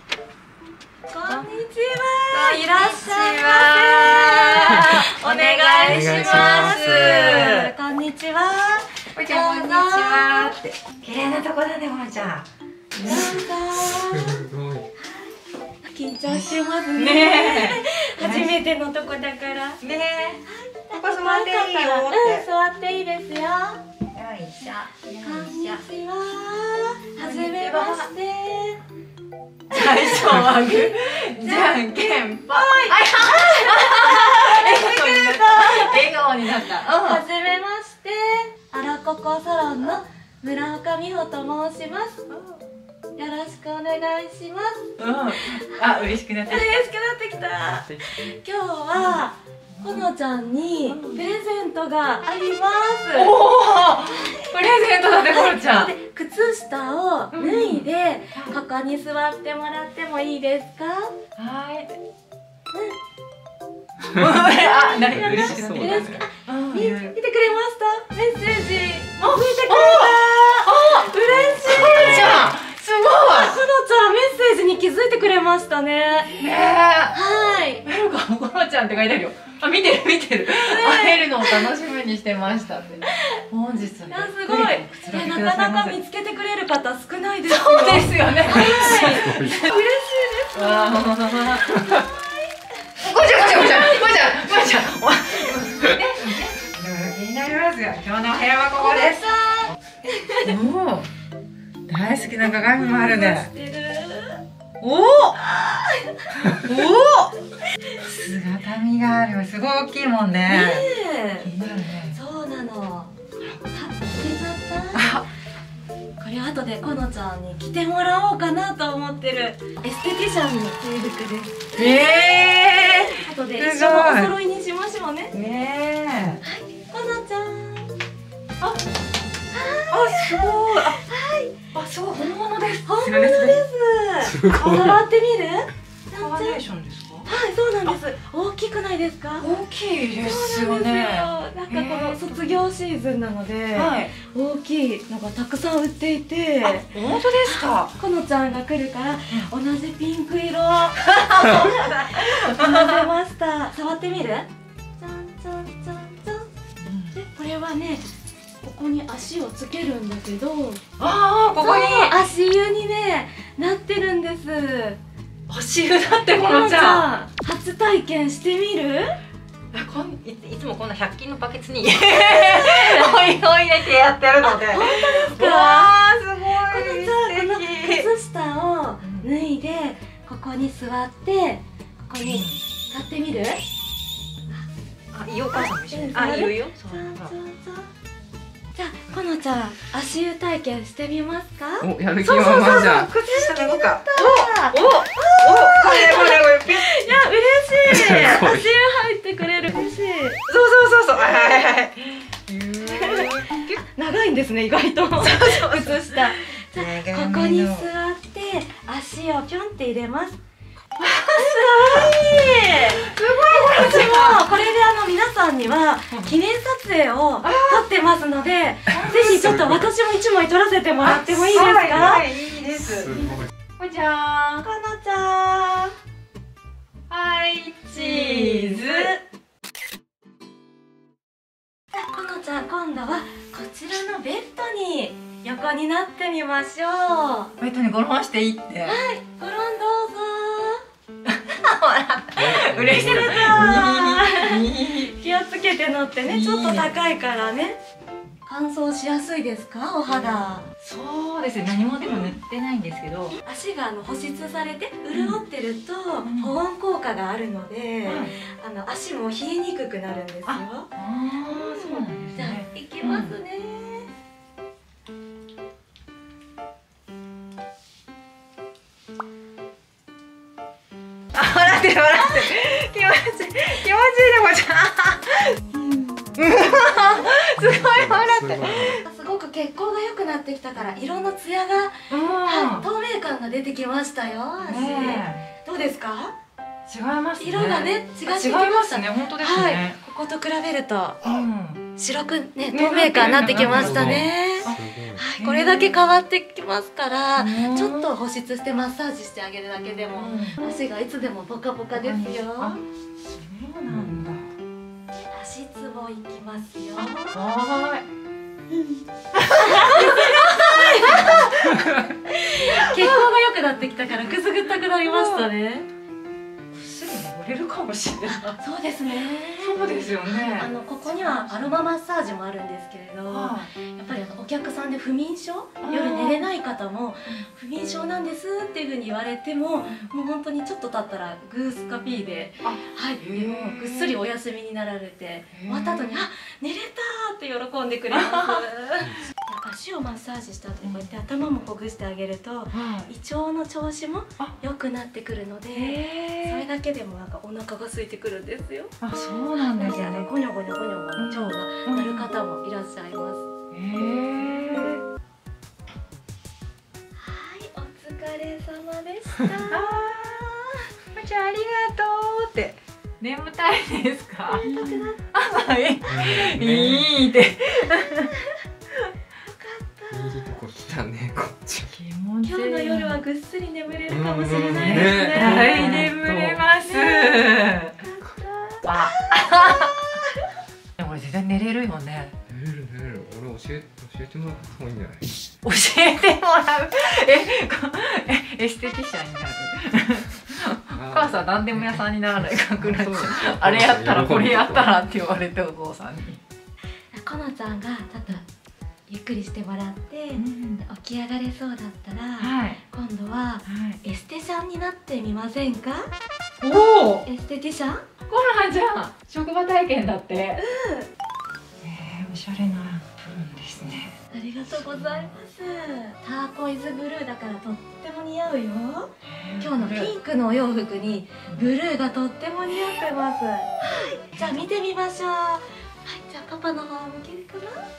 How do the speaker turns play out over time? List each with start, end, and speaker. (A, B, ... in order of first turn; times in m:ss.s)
0:01.1-0:10.5 A
0:01.2-0:01.5 B
0:02.3-0:07.7 B
0:05.9-0:07.5 C
0:09.1-0:13.5 B
0:13.0-0:14.4 A
0:13.9-0:14.9 C
0:15.0-0:19.8 A
0:16.3-0:18.6 B
0:19.8-0:22.5 B
0:20.4-0:23.8 A
0:24.1-0:25.8 B
0:25.2-0:28.8 A
0:27.2-0:28.1 B
0:29.7-0:31.9 A
0:29.7-0:37.2 B
0:32.4-0:42.2 A
0:42.3-0:42.6 B
0:43.2-0:53.4 A
0:45.0-0:46.7 B
0:49.8-0:50.1 B
0:50.9-0:51.2 B
0:53.1-0:55.9 B
0:54.0-1:01.2 A
0:57.3-0:58.6 B
1:01.4-1:02.0 B
1:02.7-1:03.0 A
1:04.0-1:07.2 B
1:04.1-1:06.3 C
1:04.3-1:16.4 A
1:09.4-1:11.1 B
1:11.3-1:12.4 C
1:11.6-1:13.6 B
1:16.4-1:17.2 B
1:17.1-1:17.8 A
1:17.8-1:26.0 B
1:20.6-1:21.7 A
1:23.1-1:23.4 A
1:24.1-1:32.5 A
1:27.5-1:29.8 B
1:29.1-1:29.6 C
1:30.5-1:32.1 B
1:33.0-1:39.2 B
1:33.2-1:34.1 A
1:38.7-1:40.6 A
1:40.4-1:41.1 B
1:41.9-1:43.5 B
1:42.4-1:44.4 A
1:44.8-1:45.4 B
1:45.4-1:46.3 A
1:46.3-1:47.4 B
1:48.0-1:50.9 B
1:50.5-1:51.5 A
1:51.4-1:52.2 B
1:52.1-1:53.1 A
1:53.7-1:55.2 A
1:55.0-1:55.3 B
1:56.2-2:05.3 A
2:01.8-2:04.4 B
2:05.3-2:06.4 B
2:06.4-2:08.0 A
2:09.5-2:11.5 A
2:09.9-2:11.0 B
2:11.7-2:13.6 B
2:12.8-2:16.6 A
2:14.2-2:15.0 C
2:14.6-2:14.9 B
2:16.2-2:17.3 B
2:17.3-2:19.5 A
2:19.4-2:22.6 B
2:20.2-2:36.5 A
2:23.7-2:24.1 B
2:26.6-2:28.0 B
2:31.1-2:33.1 B
2:36.8-2:37.2 B
2:37.1-2:38.1 A
2:38.6-2:40.8 A
2:41.0-2:42.2 B
2:41.6-2:45.0 A
2:45.5-2:47.1 B
2:46.3-2:49.2 A
2:49.7-2:58.1 B
2:52.0-2:53.2 A
2:54.4-2:56.0 A
2:56.5-3:03.6 A
2:59.0-2:59.3 B
3:02.2-3:02.6 B
3:05.1-3:07.3 B
3:05.5-3:07.9 A
3:08.8-3:11.9 A
3:11.8-3:13.1 C
3:12.2-3:17.1 B
3:12.6-3:20.4 A
3:17.8-3:18.7 C
3:20.5-3:23.8 B
3:22.8-3:23.3 A
3:23.8-3:30.4 A
3:25.2-3:27.9 B
3:31.0-3:32.2 B
3:31.3-3:42.3 A
3:32.7-3:34.6 B
3:36.1-3:36.4 B
3:37.4-3:37.8 B
3:38.9-3:39.8 B
3:39.3-3:39.8 C
3:41.0-3:43.3 B
3:43.0-3:43.5 C
3:43.1-3:43.4 A
3:43.8-3:44.7 B
3:44.6-3:45.9 A
3:47.1-3:49.1 B
3:47.9-3:49.2 A
3:51.9-3:57.5 A
3:57.6-3:59.0 B
3:58.8-4:00.8 A
4:01.2-4:05.2 B
4:02.4-4:04.0 C
4:02.9-4:07.8 A
4:06.3-4:07.0 B
4:08.4-4:10.7 A
4:10.8-4:13.4 B
4:12.0-4:12.3 A
4:13.4-4:20.9 A
4:15.1-4:15.4 B
4:16.2-4:16.6 B
4:18.0-4:18.3 B
4:20.5-4:23.3 B
4:21.4-4:24.1 A
4:31.3-4:39.0 B
4:32.1-4:32.5 A
4:36.8-4:37.3 A
4:37.4-4:39.0 C
4:38.9-4:46.4 A
4:42.1-4:42.8 B
4:44.6-4:45.5 B
4:46.9-4:50.0 B
4:47.4-4:51.2 A
4:51.2-4:51.8 B
4:52.0-5:02.8 A
4:52.7-4:56.0 B
4:53.3-4:55.3 C
4:57.4-4:58.1 B
5:00.2-5:00.6 B
5:01.9-5:02.8 B
5:03.4-5:04.5 B
5:03.9-5:04.2 C
5:05.3-5:07.5 A
5:07.0-5:08.1 B
5:09.4-5:12.1 B
5:09.6-5:15.9 A
5:12.6-5:13.3 B
5:15.0-5:15.5 B
5:16.7-5:18.6 B
5:18.4-5:49.0 A
5:19.6-5:21.8 B
5:23.3-5:23.7 B
5:25.8-5:26.5 B
5:32.6-5:34.2 B
5:35.5-5:36.3 B
5:38.1-5:38.6 B
5:42.7-5:43.1 B
5:45.7-5:46.7 B
5:49.0-5:50.3 B
5:49.6-5:53.4 A
5:51.2-5:52.3 B
5:53.7-5:55.0 B
5:57.2-6:00.6 A
5:59.7-6:00.5 B
6:01.1-6:08.3 B
6:04.6-6:05.2 A
6:06.1-6:07.2 C
6:09.4-6:10.5 A
6:10.1-6:11.9 C
6:11.9-6:13.2 B
6:12.4-6:16.2 A
6:14.1-6:16.7 C
6:14.7-6:18.0 B
6:16.8-6:20.5 A
6:18.8-6:20.1 B
6:21.0-6:22.4 B
6:22.5-6:25.3 C
6:25.6-6:36.4 B
6:30.9-6:32.1 C
6:32.6-6:34.9 C
6:37.1-6:38.4 A
6:39.1-6:46.1 A
6:40.4-6:40.8 B
6:42.4-6:42.8 B
6:43.7-6:44.0 B
6:46.6-6:47.3 B
6:47.2-6:48.0 A
6:48.3-6:50.6 B
6:50.6-6:51.1 A
6:51.8-6:54.2 B
6:54.3-7:07.9 A
6:54.9-6:55.3 B
6:59.2-7:00.1 B